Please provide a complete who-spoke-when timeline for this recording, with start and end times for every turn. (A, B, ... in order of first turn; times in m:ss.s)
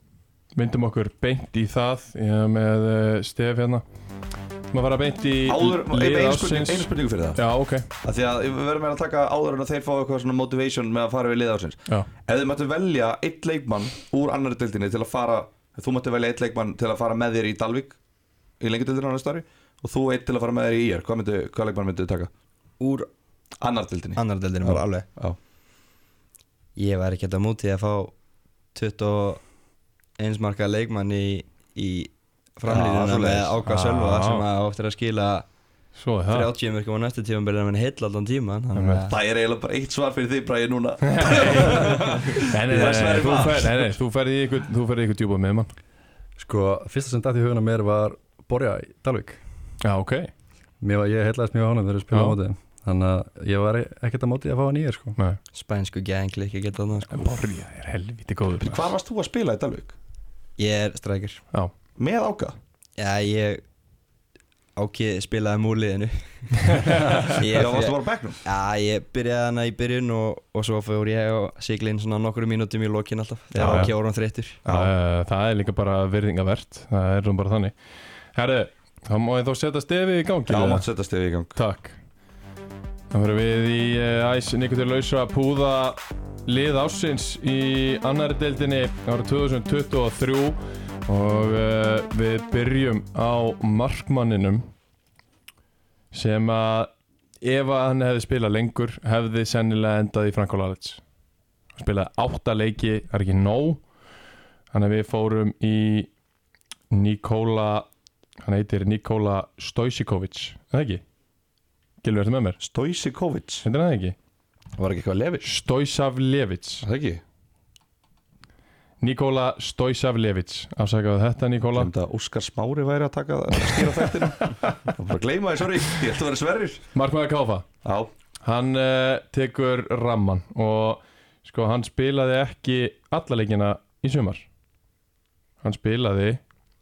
0:00.5-0:03.8 A
0:04.7-0:07.9 A
0:05.4-0:18.0 B
0:18.6-0:22.3 B
0:22.8-0:23.1 C
0:23.6-0:25.4 B
0:24.2-0:25.0 C
0:26.8-0:28.2 C
0:28.7-0:29.5 C
0:30.2-0:35.5 C
0:32.7-0:33.6 B
0:33.6-0:34.4 A
0:35.9-0:36.5 A
0:36.3-0:39.1 C
0:38.7-0:39.0 A
0:39.1-0:43.9 B
0:41.0-0:45.7 A
0:46.4-0:49.4 D
0:49.8-0:50.3 A
0:50.8-0:55.2 D
0:52.1-0:52.4 A
0:55.5-0:57.4 C
0:57.1-0:58.9 A
0:58.6-0:59.9 B
1:00.6-1:01.4 C
1:02.0-1:02.6 B
1:03.0-1:03.6 C
1:04.8-1:14.6 C
1:07.2-1:08.4 B
1:13.5-1:13.9 A
1:13.6-1:13.9 B
1:14.6-1:14.9 B
1:14.6-1:20.8 A
1:20.4-1:21.6 B
1:21.5-1:22.0 A
1:23.1-1:34.7 A
1:36.1-1:36.9 A
1:37.4-1:41.0 A
1:41.8-1:43.8 A
1:44.7-1:46.1 A
1:46.9-1:47.9 A
1:48.4-1:51.0 A
1:52.0-1:52.6 A
1:52.6-1:53.6 B
1:53.6-1:54.2 A
1:54.7-1:55.5 B
1:55.4-1:56.8 A
1:56.8-1:57.2 B
1:59.0-2:01.9 A
2:01.7-2:06.9 B
2:06.9-2:07.7 A
2:07.8-2:08.1 B
2:08.4-2:14.4 A
2:15.6-2:16.4 A